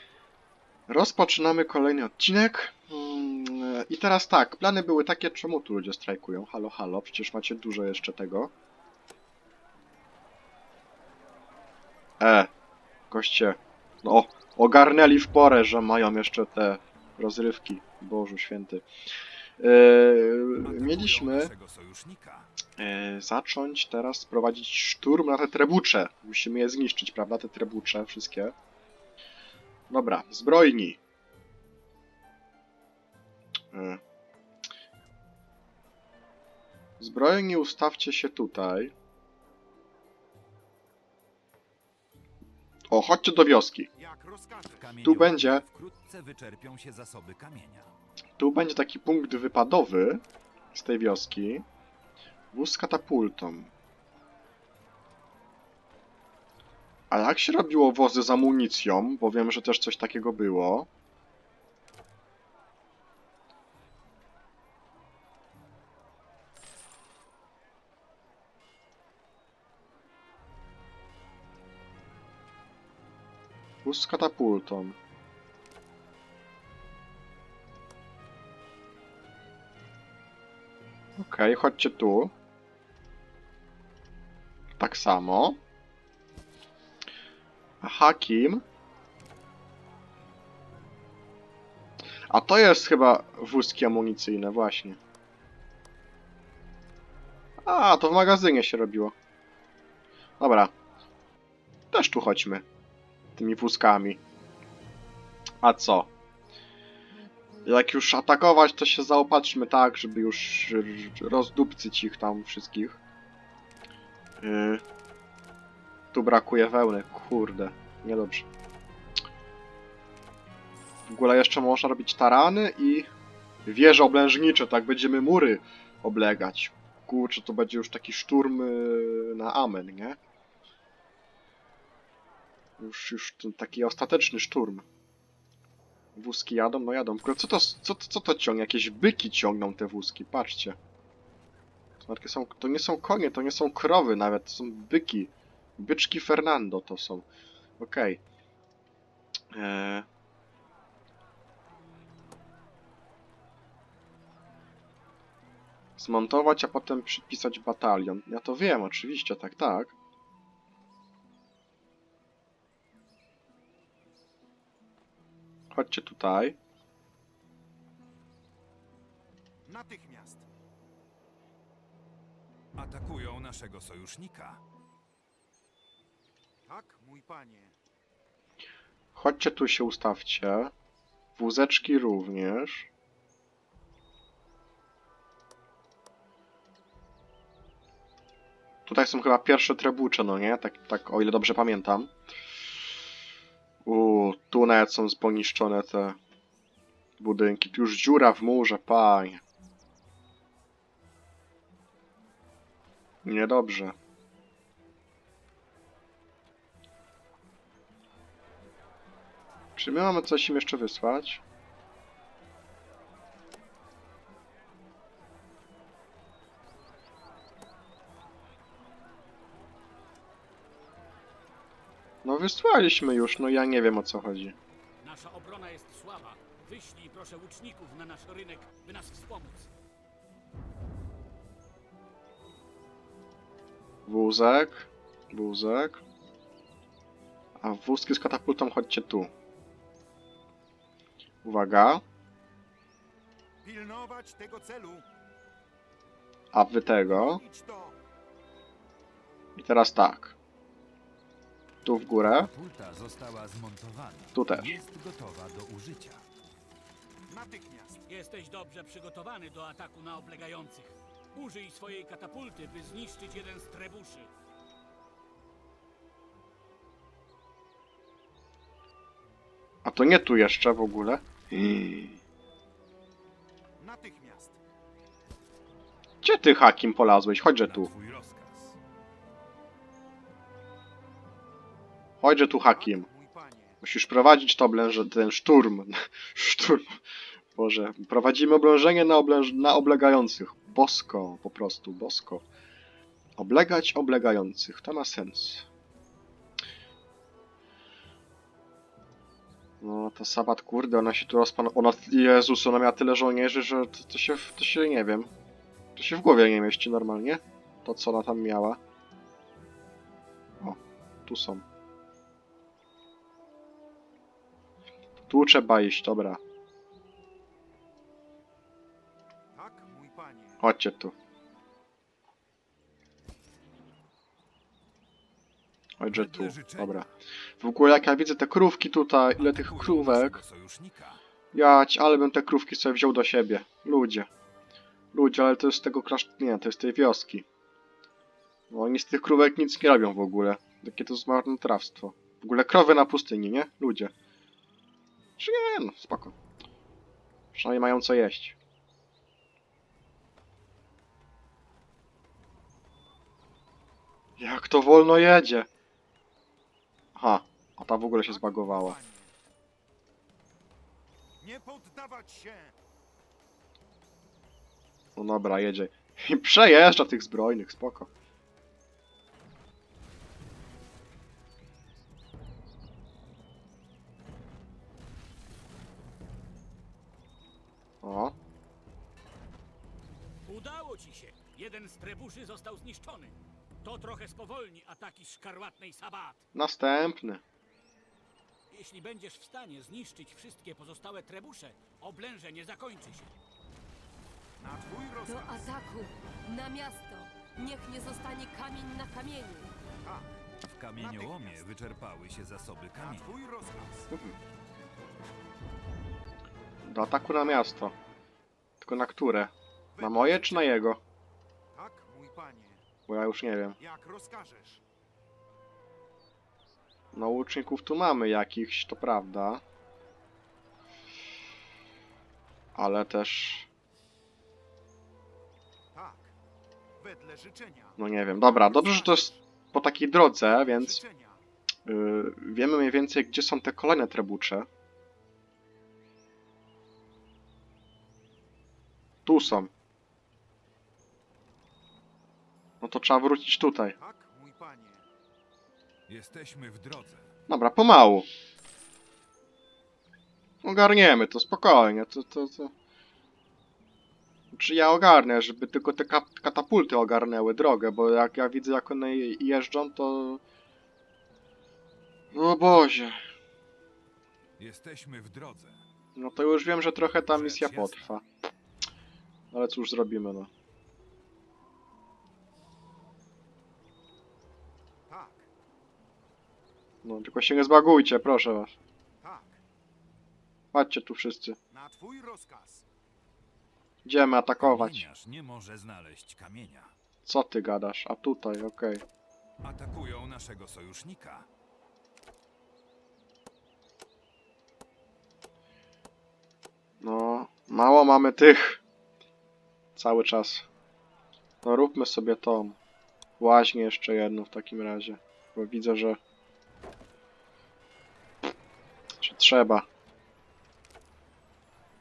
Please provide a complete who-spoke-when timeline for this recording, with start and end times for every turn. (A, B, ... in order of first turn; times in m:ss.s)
0:00.9-0:08.5 A
0:12.2-0:12.5 A
0:13.1-0:18.8 A
0:19.6-0:21.5 A
0:20.6-0:22.5 B
0:22.8-0:28.5 A
0:29.9-0:31.0 A
0:33.7-0:34.0 A
0:37.0-0:38.9 A
0:42.9-0:43.9 A
0:44.0-0:44.9 C
0:44.6-0:47.9 B
0:45.0-0:45.6 A
0:48.4-0:50.2 A
0:50.7-0:51.6 A
0:52.5-0:53.7 A
0:57.1-1:00.9 A
1:13.8-1:15.0 A
1:21.2-1:22.3 A
1:24.8-1:25.6 A
1:27.8-1:28.6 A
1:32.3-1:35.0 A
1:37.6-1:39.1 A
1:40.4-1:40.7 A
1:41.9-1:42.6 A
1:43.4-1:44.2 A
1:45.6-1:46.1 A
1:47.6-1:53.0 A
1:54.4-1:54.8 A
1:56.1-1:58.4 A
2:01.1-2:03.1 A
2:03.6-2:10.2 A
2:12.8-2:14.8 A
2:16.2-2:20.8 A
2:22.0-2:27.2 A
2:27.8-2:28.2 A
2:29.5-2:30.0 A
2:36.0-2:39.9 A
2:45.7-2:46.6 A
2:49.6-2:50.4 C
2:52.7-2:54.6 B
2:56.6-2:57.7 C
2:59.1-3:00.7 A
3:01.4-3:02.9 A
3:08.8-3:12.1 A
3:13.8-3:16.2 A
3:17.2-3:19.4 A
3:23.2-3:24.0 A
3:29.8-3:31.4 A
3:42.2-3:44.5 A
3:45.0-3:49.7 D
3:54.1-3:56.0 A
3:57.6-3:59.3 A
4:01.4-4:02.0 A
4:03.6-4:05.0 C
4:06.5-4:07.4 A
4:07.0-4:08.0 C
4:09.6-4:10.4 A
4:11.8-4:12.5 A
4:12.2-4:16.3 B
4:14.3-4:14.7 A
4:17.3-4:18.0 C
4:18.1-4:24.3 D
4:29.8-4:32.2 A
4:33.8-4:34.6 C
4:36.2-4:37.9 A
4:37.6-4:38.8 B
4:42.2-4:43.1 A
4:42.6-4:43.8 C
4:43.8-4:47.0 A
4:47.6-4:52.4 A
4:53.4-4:55.6 A
4:59.8-5:05.3 A
5:06.0-5:08.8 A
5:10.6-5:11.6 A
5:15.3-5:16.4 A
5:19.5-5:20.6 C
5:20.6-5:21.1 A
5:26.0-5:27.1 A
5:26.1-5:27.2 B
5:27.6-5:30.4 A
5:29.4-5:31.2 B
5:31.5-5:34.3 A
5:35.1-5:37.4 A
5:38.7-5:44.1 A
5:45.4-5:46.3 A
5:47.5-5:48.6 A
5:54.4-5:55.7 A
5:57.1-5:59.0 A
5:58.3-5:59.3 C
6:01.4-6:02.7 C
6:05.2-6:08.1 A
6:18.0-6:18.3 A
6:20.5-6:26.4 D
6:26.5-6:27.4 A
6:28.7-6:33.3 D
6:34.6-6:35.7 C
6:35.2-6:39.7 E
6:40.0-6:40.4 C
6:40.6-6:43.4 B
6:41.0-6:41.7 C
6:42.9-6:44.1 C
6:44.1-6:44.4 A
6:46.8-6:47.9 A
6:48.8-6:51.0 A
6:49.9-6:50.8 C
6:51.7-6:52.8 C
6:53.1-6:53.8 A
6:53.8-6:54.8 C
6:57.1-6:59.6 A
7:02.7-7:03.7 A
7:05.9-7:06.3 C
7:07.0-7:09.4 C
7:08.0-7:11.0 A
7:10.4-7:11.4 C
7:11.9-7:14.7 A
7:19.2-7:19.7 A
7:22.8-7:24.0 A
7:24.0-7:25.0 C
7:26.1-7:27.3 B
7:27.5-7:28.3 A
7:30.6-7:32.7 A
7:34.5-7:40.4 A
7:42.3-7:43.2 A
7:44.6-7:45.8 B
7:46.2-7:48.2 A
7:47.3-7:48.0 B
7:49.5-7:50.5 A
7:55.1-7:55.5 C
7:57.0-7:58.7 A
7:59.2-7:59.6 C
8:00.7-8:01.6 A
8:01.7-8:02.8 C
8:04.0-8:05.1 A
8:04.6-8:06.9 B
8:07.2-8:09.0 A
8:09.6-8:11.5 B
8:17.0-8:18.8 A
8:20.0-8:20.6 A
8:21.6-8:22.8 A
8:23.4-8:26.2 A
8:29.2-8:29.8 A